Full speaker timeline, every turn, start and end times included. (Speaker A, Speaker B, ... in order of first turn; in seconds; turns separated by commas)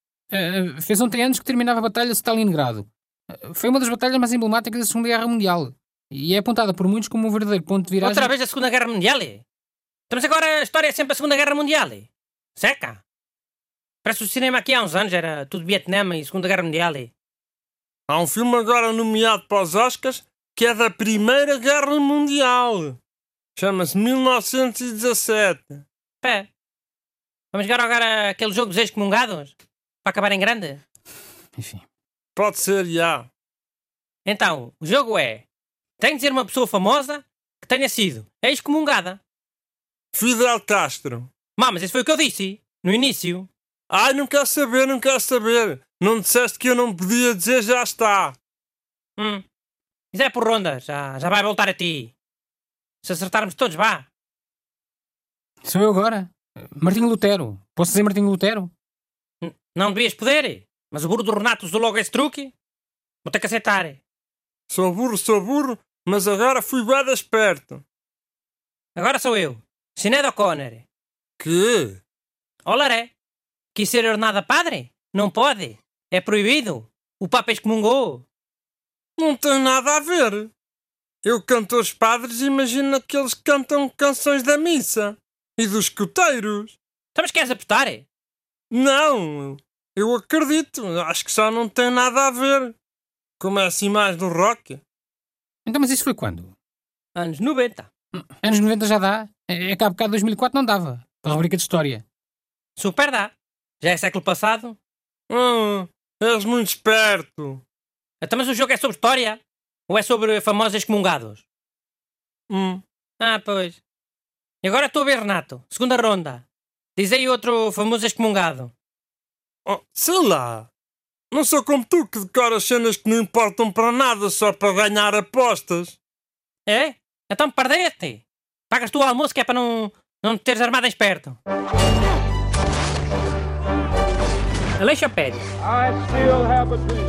Speaker A: 0.3-8.3, Speaker B: 8.0-9.4, Speaker B: 10.1-13.0, Speaker B: 14.0-17.1, Speaker C: 18.1-23.0, Speaker C: 23.6-25.8, Speaker B: 26.2-26.5, Speaker B: 27.5-30.8, Speaker A: 31.6-31.8, Speaker C: 32.4-33.3, Speaker B: 34.2-35.4, Speaker B: 36.0-39.2, Speaker C: 40.1-41.3, Speaker B: 41.5-43.5, Speaker C: 43.9-48.4, Speaker B: 49.2-49.4, Speaker B: 50.1-52.1, Speaker B: 53.0-54.1, Speaker A: 55.6-58.7, Speaker B: 59.4-62.5, Speaker B: 63.2-64.0, Speaker C: 64.7-67.8, Speaker B: 69.0-70.8, Speaker C: 71.4-72.0, Speaker B: 72.6-73.1, Speaker B: 73.7-78.3, Speaker C: 79.2-80.5, Speaker C: 81.2-86.8, Speaker B: 87.1-88.1, Speaker C: 88.7-92.8, Speaker C: 93.4-94.8, Speaker A: 95.7-96.5, Speaker B: 97.2-97.9, Speaker A: 98.4-102.0, Speaker B: 102.8-104.8, Speaker C: 105.3-107.6, Speaker B: 108.2-111.5, Speaker C: 112.5-112.8, Speaker B: 113.2-113.8, Speaker B: 114.6-116.4, Speaker B: 117.0-118.7, Speaker C: 119.6-120.7, Speaker C: 121.3-126.0, Speaker B: 126.7-131.4, Speaker B: 134.8-135.5